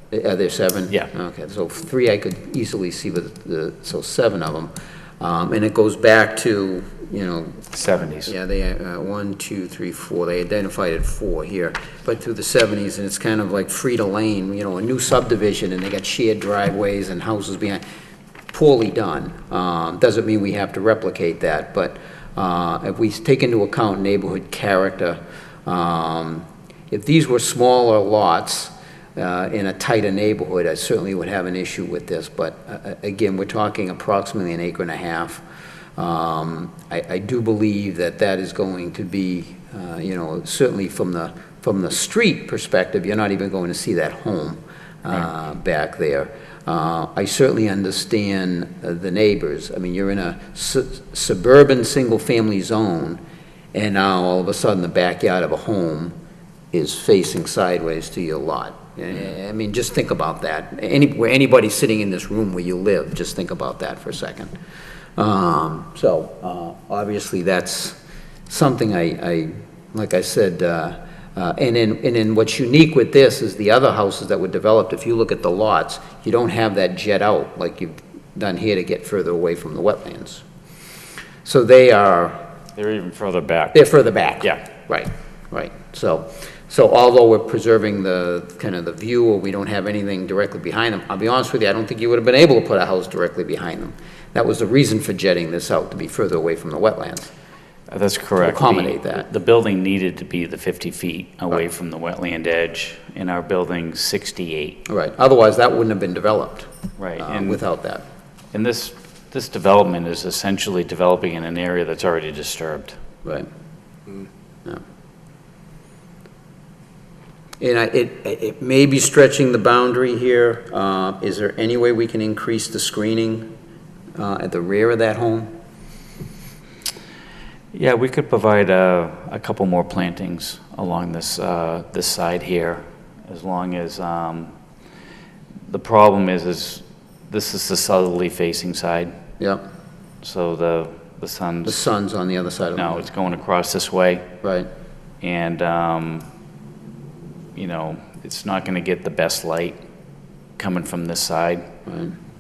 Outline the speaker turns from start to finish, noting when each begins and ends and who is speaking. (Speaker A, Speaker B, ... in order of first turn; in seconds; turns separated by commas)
Speaker A: 0.1-17.8, Speaker B: 7.7-8.3, Speaker A: 18.5-35.4, Speaker A: 36.0-53.2, Speaker A: 53.7-56.1, Speaker A: 56.7-64.5, Speaker A: 65.2-68.0, Speaker A: 68.5-80.4, Speaker A: 81.4-82.4, Speaker B: 82.8-83.9, Speaker A: 83.7-97.3, Speaker B: 97.9-104.8, Speaker A: 98.4-99.3, Speaker A: 104.9-108.0, Speaker B: 107.0-107.6, Speaker B: 108.5-113.0, Speaker A: 117.6-123.5, Speaker A: 124.2-125.5, Speaker B: 127.7-134.5, Speaker B: 135.7-139.2, Speaker B: 140.2-141.9, Speaker A: 141.7-143.1, Speaker B: 142.8-144.3, Speaker A: 144.4-144.7, Speaker B: 145.2-146.3, Speaker B: 147.6-149.8, Speaker B: 150.6-151.7, Speaker A: 151.9-152.2